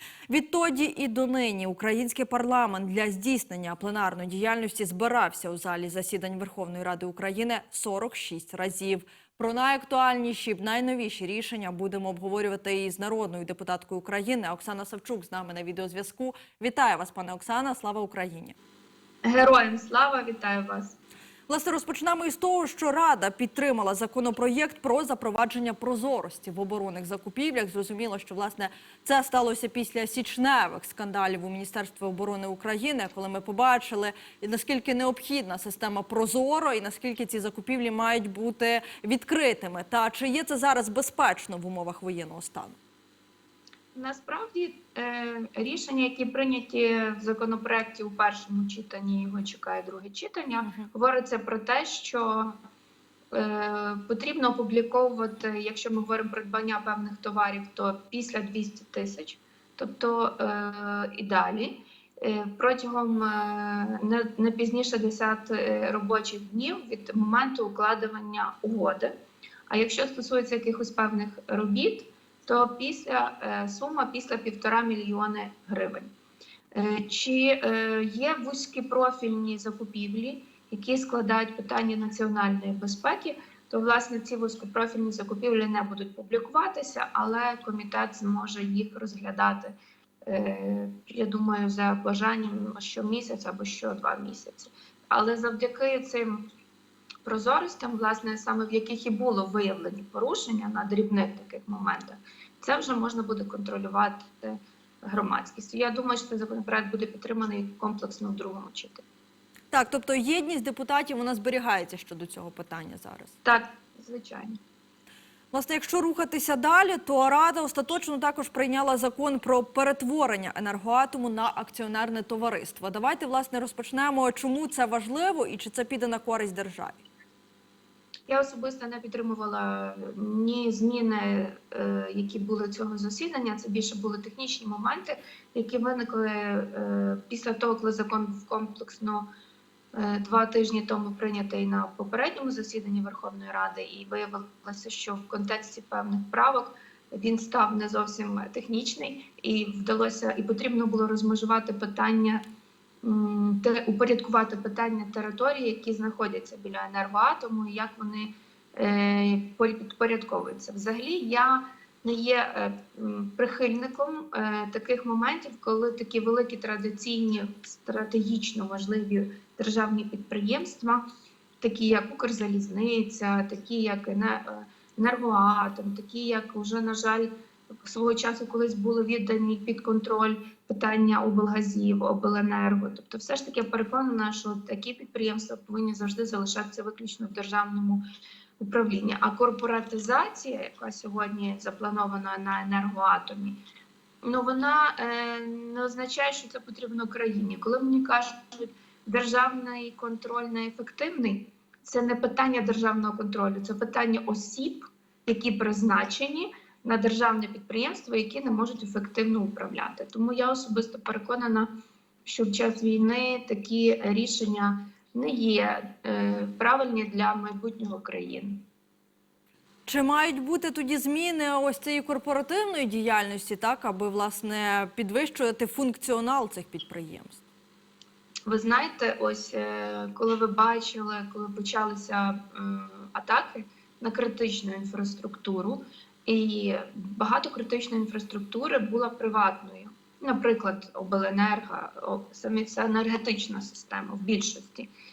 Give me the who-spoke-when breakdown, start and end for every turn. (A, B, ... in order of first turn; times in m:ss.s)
0:00.3-0:18.6 A
0:19.2-0:21.0 B
0:21.5-0:42.8 A
0:43.9-0:52.5 B
0:53.3-1:09.1 B
1:09.7-1:16.1 B
1:16.7-1:29.7 B
1:30.3-1:36.4 B
1:37.2-1:49.0 B
1:49.7-1:53.4 A
1:53.4-1:54.6 B
1:55.5-2:07.0 A
2:08.3-2:19.3 B
2:19.9-2:32.4 B
2:33.0-2:51.0 B
2:51.6-2:57.3 B
2:57.8-3:08.0 B
3:08.6-3:13.6 B
3:14.2-3:31.7 B
3:32.3-3:38.6 B
3:39.9-3:47.4 A
3:48.5-4:04.9 B